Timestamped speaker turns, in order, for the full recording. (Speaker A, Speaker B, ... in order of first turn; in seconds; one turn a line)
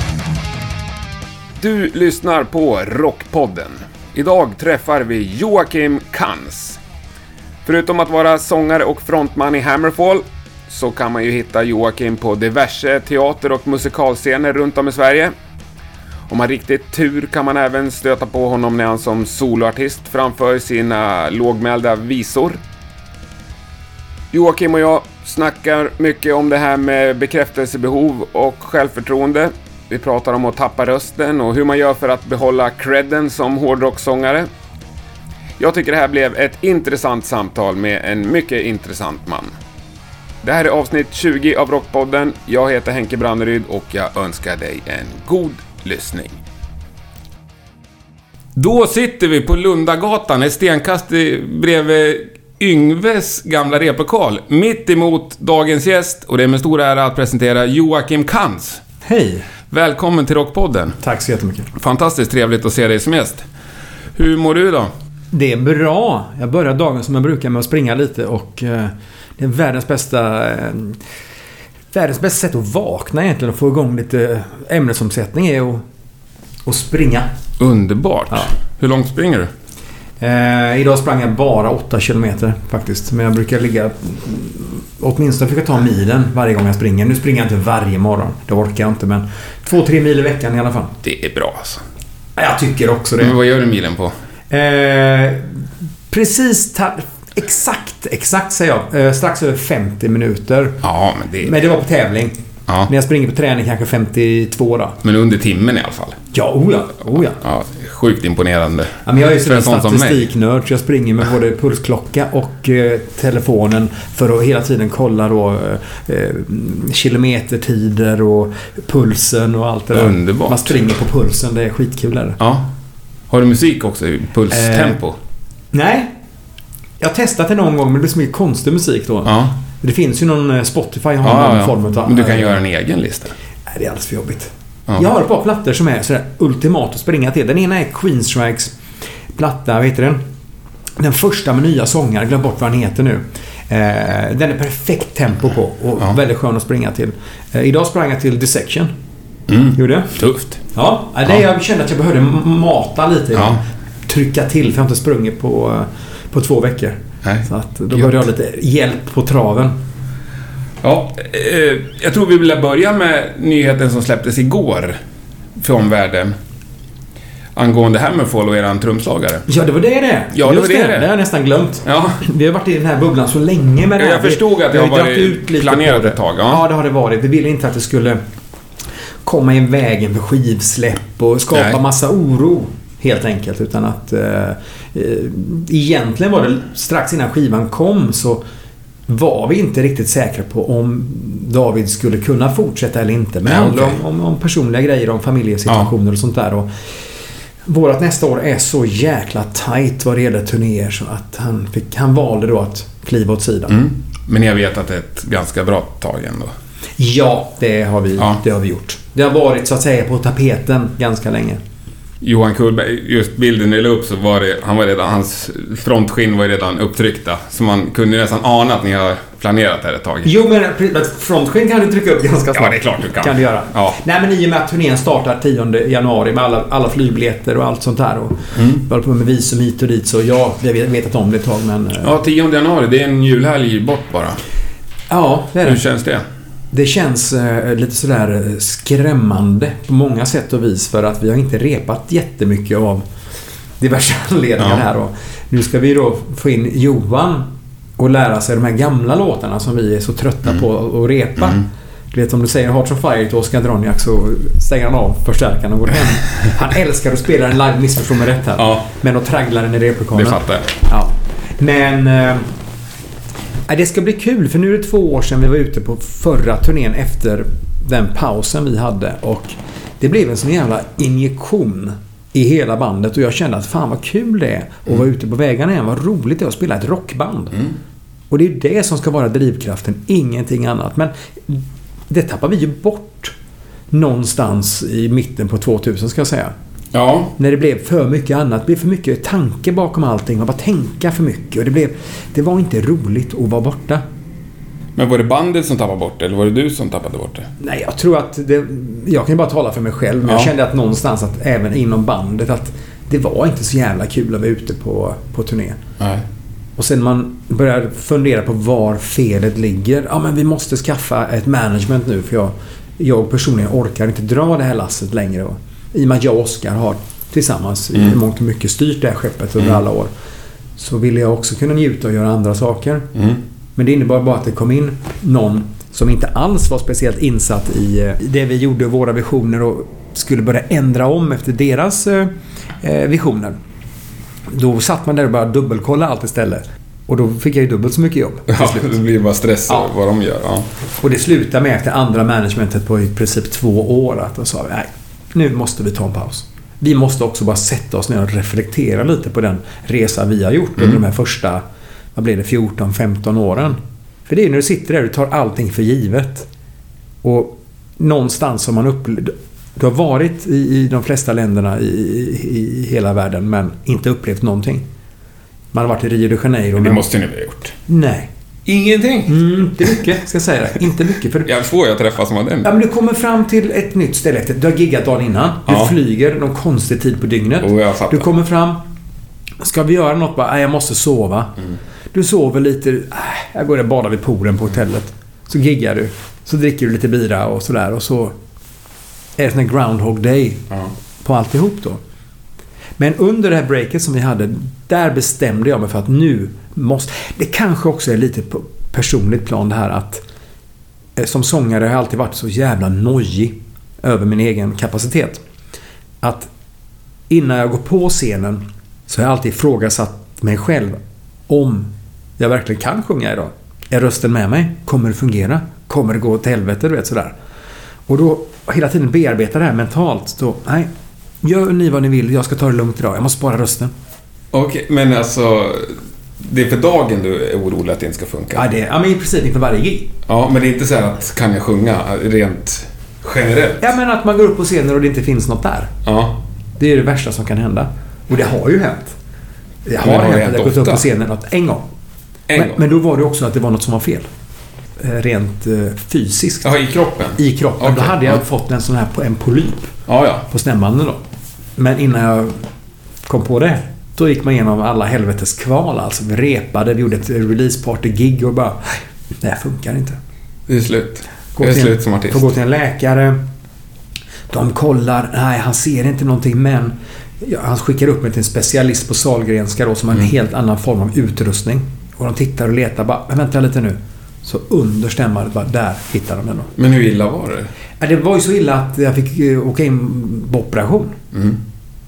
Speaker A: 1.6-6.8
Speaker A: 7.6-15.3
Speaker A: 16.3-22.6
Speaker A: 24.3-34.5
Speaker A: 35.6-39.5
Speaker A: 40.4-46.4
Speaker A: 48.5-58.8
Speaker B: 59.0-59.4
Speaker A: 59.7-61.0
Speaker B: 61.0-61.7
Speaker A: 61.7-63.4
Speaker A: 64.1-64.9
Speaker B: 65.3-71.0
Speaker B: 71.9-75.8
Speaker B: 76.7-77.3
Speaker A: 77.6-79.5
Speaker B: 80.2-91.0
Speaker A: 91.0-91.8
Speaker B: 92.3-93.3
Speaker A: 93.2-94.1
Speaker B: 94.5-95.6
Speaker B: 96.1-100.8
Speaker A: 100.8-101.6
Speaker B: 101.4-102.3
Speaker B: 102.9-105.0
Speaker A: 105.0-106.2
Speaker B: 106.3-107.4
Speaker A: 107.4-110.3
Speaker B: 109.0-122.4
Speaker A: 119.9-120.9
Speaker A: 122.4-122.7
Speaker A: 123.3-125.2
Speaker B: 124.5-125.0
Speaker B: 125.7-126.1
Speaker B: 127.0-132.6
Speaker A: 129.2-129.5
Speaker A: 131.2-133.3
Speaker B: 133.7-138.7
Speaker B: 139.3-140.2
Speaker B: 141.0-148.9
Speaker A: 149.5-150.6
Speaker B: 149.7-150.2
Speaker B: 150.7-159.8
Speaker A: 153.3-153.6
Speaker A: 157.2-158.2
Speaker A: 160.8-165.0
Speaker A: 165.6-166.3
Speaker A: 167.5-169.4
Speaker B: 169.5-178.2
Speaker A: 170.3-171.1
Speaker A: 171.8-172.2
Speaker A: 174.0-176.6
Speaker B: 179.2-188.4
Speaker B: 189.1-196.7
Speaker A: 193.4-194.0
Speaker B: 197.6-203.8
Speaker A: 203.7-206.5
Speaker B: 207.0-211.6
Speaker A: 212.2-220.3
Speaker B: 220.2-232.1
Speaker A: 222.5-224.0
Speaker A: 228.5-228.8
Speaker A: 232.0-234.4
Speaker B: 235.1-235.8
Speaker A: 235.6-236.2
Speaker B: 236.7-243.0
Speaker B: 243.8-262.5
Speaker A: 244.6-244.8
Speaker A: 258.6-258.8
Speaker A: 260.1-260.7
Speaker B: 263.7-277.6
Speaker B: 278.3-283.3
Speaker B: 283.9-286.5
Speaker A: 286.9-287.3
Speaker B: 287.4-294.0
Speaker A: 294.9-297.5
Speaker B: 297.6-305.8
Speaker A: 300.2-300.5
Speaker A: 306.0-306.2
Speaker B: 306.8-320.1
Speaker B: 320.8-323.1
Speaker A: 323.1-323.4
Speaker B: 323.8-333.6
Speaker B: 334.5-338.9
Speaker A: 338.5-340.7
Speaker B: 341.0-351.6
Speaker B: 352.1-356.5
Speaker B: 357.2-364.8
Speaker B: 365.7-367.0
Speaker A: 366.8-367.7
Speaker B: 367.9-368.3
Speaker A: 368.6-369.3
Speaker B: 369.3-371.5
Speaker A: 371.4-372.7
Speaker B: 372.6-378.8
Speaker A: 375.7-375.9
Speaker A: 377.6-378.3
Speaker B: 379.6-381.5
Speaker B: 382.1-388.3
Speaker B: 389.4-390.7
Speaker B: 391.2-392.0
Speaker B: 393.0-400.2
Speaker B: 401.1-405.4
Speaker B: 406.2-406.5
Speaker B: 407.3-411.0
Speaker B: 411.5-417.3
Speaker B: 418.1-420.9
Speaker B: 421.4-423.9
Speaker A: 424.5-428.6
Speaker B: 428.5-430.1
Speaker A: 430.2-433.9
Speaker B: 433.8-435.9
Speaker A: 436.0-436.4
Speaker B: 436.8-439.1
Speaker B: 439.9-441.8
Speaker A: 440.0-441.0
Speaker A: 442.5-442.8
Speaker B: 442.5-444.3
Speaker B: 445.0-446.7
Speaker A: 446.6-448.4
Speaker B: 447.4-449.9
Speaker A: 450.1-450.4
Speaker B: 450.5-451.2
Speaker B: 451.8-452.6
Speaker B: 453.2-460.2
Speaker A: 460.7-462.4
Speaker B: 461.6-463.4
Speaker B: 464.5-476.7
Speaker A: 476.8-477.7
Speaker B: 478.0-481.2
Speaker A: 481.3-481.6